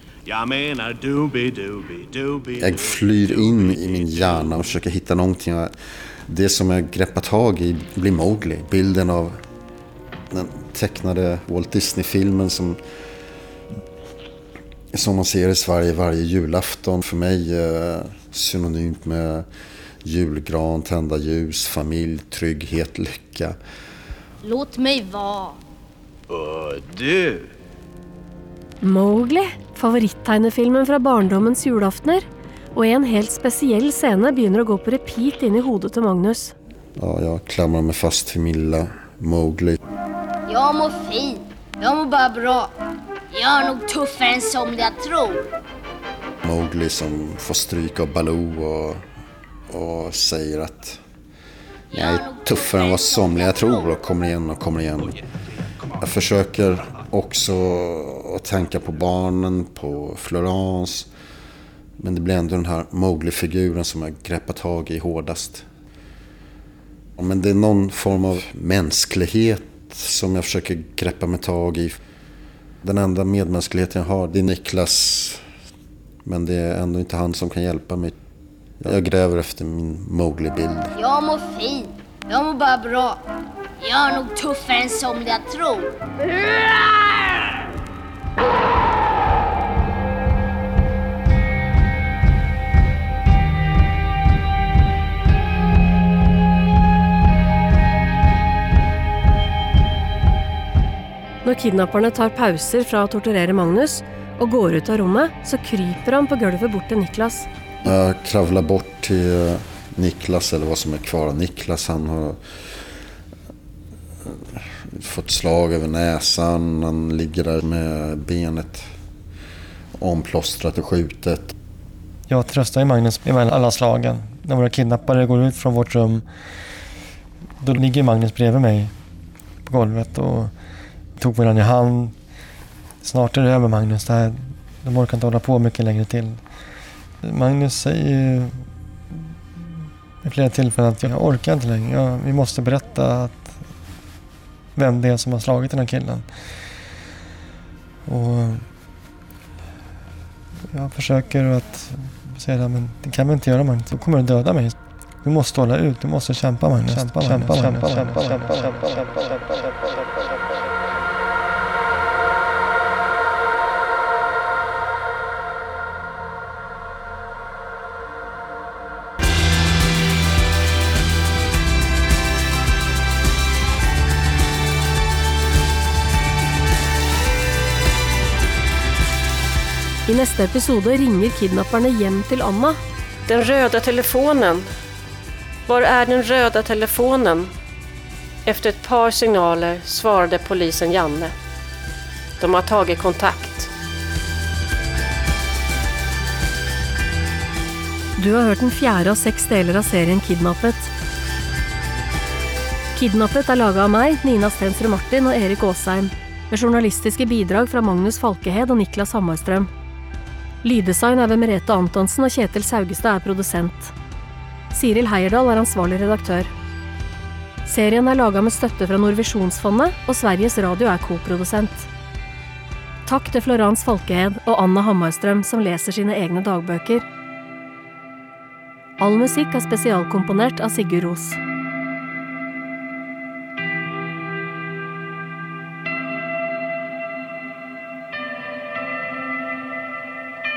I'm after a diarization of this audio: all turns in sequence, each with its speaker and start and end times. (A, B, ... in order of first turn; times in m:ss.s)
0:00.3-0:04.8 A
0:02.6-0:05.7 B
0:06.3-0:09.4 B
0:10.3-0:12.8 B
0:14.9-0:19.4 B
0:20.0-0:23.6 B
0:24.4-0:25.6 C
0:26.3-0:27.5 A
0:28.8-0:36.5 D
0:37.0-0:39.8 B
0:40.5-0:42.7 C
0:43.3-0:45.4 C
0:46.4-0:49.0 B
0:49.7-0:51.0 B
0:51.9-0:53.9 C
0:51.9-0:55.2 B
0:56.0-1:01.1 B
1:02.0-1:05.6 B
1:07.2-1:12.0 B
1:12.8-1:15.4 B
1:16.2-1:18.1 B
1:18.8-1:20.9 B
1:20.9-1:23.2 C
1:23.8-1:27.5 C
1:41.4-1:47.5 D
1:47.8-1:52.4 B
1:54.9-1:58.8 B
2:00.0-2:01.5 B
2:02.3-2:06.2 E
2:07.6-2:08.9 E
2:09.6-2:10.5 E
2:11.2-2:12.1 E
2:13.0-2:16.4 E
2:17.2-2:19.6 E
2:20.2-2:23.6 E
2:24.8-2:26.3 E
2:28.0-2:28.7 E
2:30.7-2:39.0 E
3:00.1-3:02.8 D
3:03.3-3:04.7 F
3:05.7-3:07.5 F
3:08.4-3:11.3 F
3:12.4-3:13.7 F
3:18.2-3:20.9 D
3:22.9-3:29.7 D
3:30.6-3:33.9 D
3:34.7-3:36.5 D
3:37.6-3:41.9 D
3:43.0-3:47.0 D
3:49.0-3:51.4 D